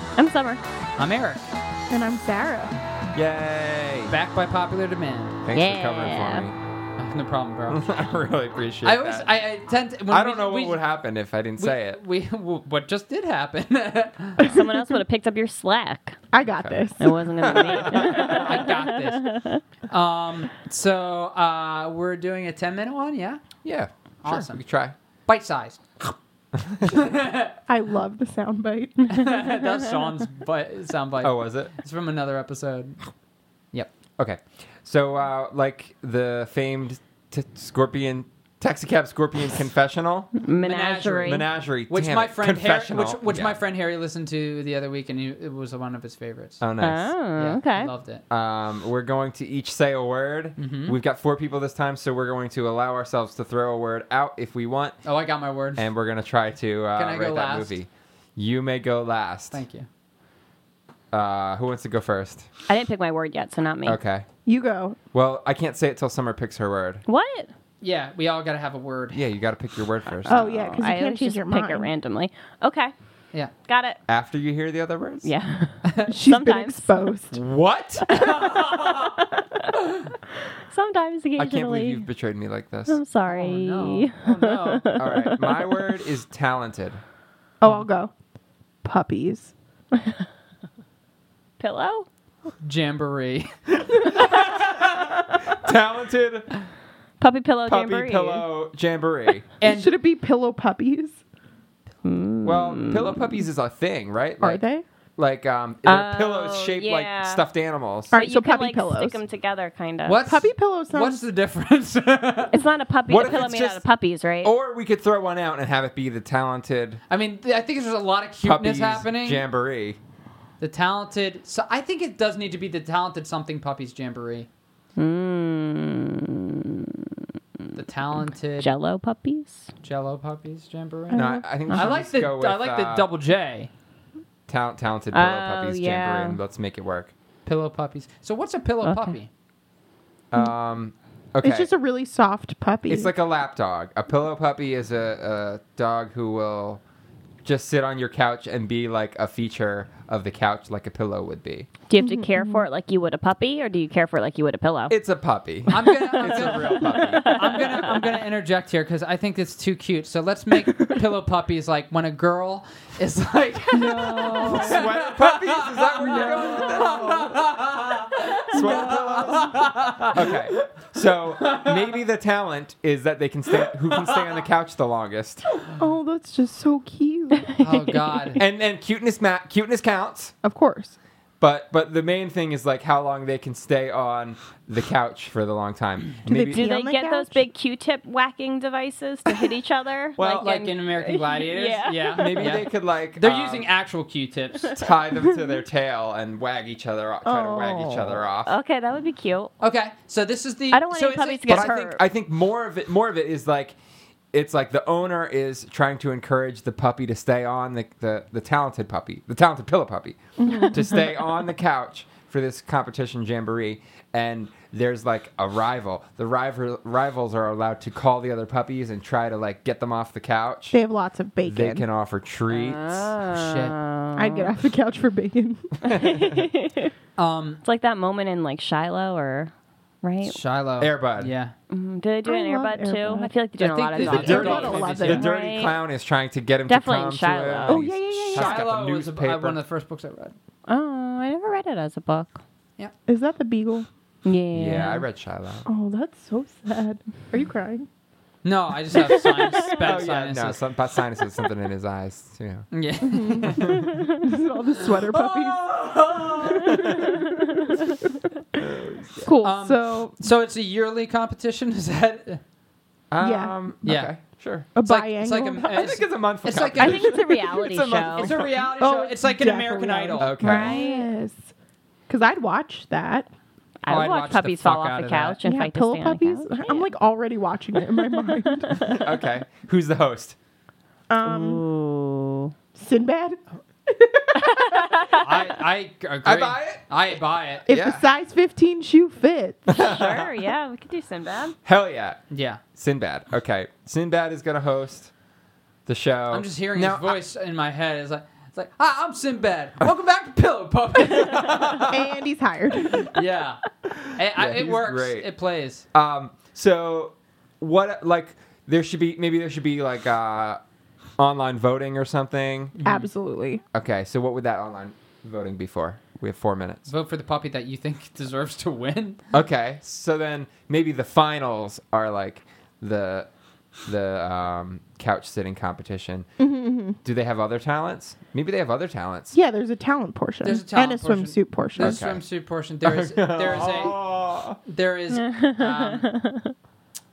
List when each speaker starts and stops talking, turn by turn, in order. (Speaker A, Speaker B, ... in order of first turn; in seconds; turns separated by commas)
Speaker A: 0.1-0.6, Speaker B: 1.0-1.4, Speaker C: 1.9-2.8, Speaker D: 3.1-4.1, Speaker B: 4.1-5.4, Speaker D: 5.4-6.5, Speaker A: 5.5-6.5, Speaker B: 7.0-7.8, Speaker D: 7.7-9.3, Speaker B: 8.8-10.9, Speaker D: 10.1-12.0, Speaker B: 11.6-14.4, Speaker A: 14.4-16.2, Speaker C: 16.3-18.2, Speaker D: 16.5-16.8, Speaker A: 17.0-19.6, Speaker D: 17.4-18.2, Speaker B: 17.9-23.4, Speaker D: 23.6-24.9, Speaker B: 24.2-24.6, Speaker B: 25.3-26.1, Speaker D: 26.5-27.0, Speaker B: 26.9-27.5, Speaker C: 27.7-29.2, Speaker B: 29.0-33.0, Speaker D: 31.2-31.7, Speaker D: 34.2-40.3, Speaker A: 40.4-41.5, Speaker B: 40.6-46.6, Speaker D: 41.2-43.6, Speaker D: 46.6-47.1, Speaker A: 46.8-47.9, Speaker B: 47.4-48.2, Speaker D: 48.3-55.0, Speaker B: 50.6-51.0, Speaker B: 55.0-55.9, Speaker D: 55.8-59.6, Speaker B: 56.9-57.8, Speaker B: 59.5-59.9, Speaker D: 61.1-62.5, Speaker A: 62.7-64.0, Speaker D: 63.8-64.3, Speaker C: 64.5-65.0, Speaker D: 65.1-67.0, Speaker A: 67.0-67.5, Speaker B: 67.8-69.2, Speaker D: 69.1-70.5, Speaker A: 70.1-72.9, Speaker C: 70.3-71.9, Speaker A: 73.6-74.0, Speaker D: 74.1-75.3, Speaker A: 75.2-77.0, Speaker B: 75.8-76.1, Speaker C: 76.1-77.4, Speaker D: 77.3-78.1, Speaker A: 78.1-79.7, Speaker B: 78.2-79.1, Speaker A: 80.7-82.1, Speaker D: 81.4-83.0, Speaker A: 82.9-85.6, Speaker B: 83.3-84.9, Speaker D: 85.0-87.0, Speaker C: 87.6-88.1, Speaker C: 88.8-89.5, Speaker A: 91.6-92.0, Speaker B: 92.6-93.5, Speaker D: 95.3-96.5, Speaker A: 97.2-98.5, Speaker D: 97.6-99.5, Speaker B: 99.6-100.0, Speaker C: 99.6-101.2, Speaker A: 102.0-103.4, Speaker D: 102.4-104.6, Speaker C: 104.4-104.8, Speaker D: 105.2-108.1, Speaker A: 105.8-107.5, Speaker C: 108.1-109.2, Speaker A: 108.1-110.2, Speaker B: 110.0-112.7, Speaker C: 110.2-111.2, Speaker A: 112.5-114.5, Speaker D: 113.1-113.8, Speaker D: 114.4-117.0, Speaker B: 117.1-119.4, Speaker D: 118.4-120.0, Speaker B: 120.6-124.5, Speaker A: 125.0-126.8, Speaker B: 127.7-128.7, Speaker A: 128.6-129.7, Speaker B: 129.8-133.7, Speaker C: 131.1-131.4, Speaker D: 131.1-133.1, Speaker D: 134.5-137.1, Speaker A: 135.1-136.4, Speaker B: 137.4-139.3, Speaker A: 138.8-139.2, Speaker D: 140.3-141.7, Speaker C: 141.4-143.1, Speaker D: 142.9-146.8, Speaker D: 147.4-151.7, Speaker A: 151.9-154.9, Speaker C: 152.0-152.7, Speaker D: 154.9-157.3, Speaker B: 155.7-170.5, Speaker A: 156.1-157.8, Speaker D: 164.0-167.4, Speaker D: 168.5-175.4, Speaker B: 171.4-171.9, Speaker C: 175.8-177.5, Speaker B: 177.6-178.4, Speaker D: 178.4-180.3, Speaker C: 180.4-181.0, Speaker D: 181.4-186.7, Speaker C: 186.3-187.5, Speaker A: 186.3-192.6, Speaker D: 190.2-190.5, Speaker B: 190.4-194.8, Speaker D: 192.1-193.7, Speaker D: 194.6-198.5, Speaker C: 197.2-198.1, Speaker A: 198.4-199.5, Speaker B: 199.6-201.7, Speaker A: 200.7-202.0, Speaker D: 201.5-203.8, Speaker D: 204.3-220.8, Speaker C: 220.7-221.8, Speaker D: 221.4-223.1, Speaker A: 222.5-224.5, Speaker B: 223.3-223.8, Speaker C: 224.2-226.0, Speaker A: 225.9-226.9, Speaker D: 225.9-226.3, Speaker B: 227.2-227.6, Speaker A: 227.6-229.5, Speaker A: 230.0-230.4, Speaker B: 230.2-231.5, Speaker D: 230.8-231.3, Speaker A: 231.7-235.8, Speaker C: 232.2-233.3, Speaker B: 233.6-235.3, Speaker C: 234.0-235.2, Speaker D: 234.0-239.6, Speaker A: 236.7-237.8, Speaker C: 237.7-238.6, Speaker B: 238.3-240.3, Speaker A: 240.7-242.4, Speaker C: 243.1-243.9, Speaker A: 244.2-245.1, Speaker D: 244.5-245.7, Speaker C: 245.7-247.8, Speaker B: 248.4-250.6, Speaker C: 249.2-249.6, Speaker D: 249.7-252.7, Speaker B: 252.7-254.1, Speaker C: 253.0-258.0, Speaker D: 253.4-253.9, Speaker B: 254.8-257.0, Speaker D: 256.7-257.2, Speaker A: 257.1-257.3, Speaker D: 258.5-259.3, Speaker C: 259.2-260.2, Speaker B: 259.4-262.4, Speaker D: 263.1-264.7, Speaker C: 263.2-263.5, Speaker B: 263.8-264.1, Speaker C: 264.7-265.8, Speaker B: 264.8-267.1, Speaker D: 265.6-268.6, Speaker A: 266.8-268.4, Speaker B: 268.1-270.4, Speaker C: 268.7-271.5, Speaker D: 270.2-270.8, Speaker A: 270.4-271.1, Speaker C: 272.1-273.3, Speaker A: 273.8-276.9, Speaker B: 273.9-275.4, Speaker C: 275.4-278.9, Speaker D: 278.7-280.4, Speaker C: 281.1-281.6, Speaker A: 281.2-282.5, Speaker C: 282.8-284.7, Speaker A: 284.4-285.4, Speaker B: 285.2-287.7, Speaker D: 286.2-286.8, Speaker D: 287.7-288.1, Speaker C: 287.7-289.7, Speaker D: 289.7-290.3, Speaker A: 289.7-291.6, Speaker D: 291.6-292.2, Speaker B: 292.3-292.6, Speaker D: 292.8-295.1, Speaker D: 295.9-297.2, Speaker B: 296.3-301.9, Speaker D: 301.2-301.9, Speaker C: 301.9-303.1, Speaker B: 303.0-305.8, Speaker D: 303.8-305.3, Speaker D: 305.9-310.6, Speaker D: 311.2-312.7, Speaker B: 312.8-313.1, Speaker C: 312.8-313.6, Speaker D: 313.7-316.8, Speaker B: 316.9-319.2, Speaker D: 319.3-323.3, Speaker D: 323.8-326.3, Speaker C: 326.4-327.0, Speaker D: 327.0-329.4, Speaker C: 329.3-332.0, Speaker B: 330.4-334.0, Speaker D: 331.8-332.2, Speaker D: 332.8-334.6, Speaker B: 334.6-336.1, Speaker A: 335.1-336.5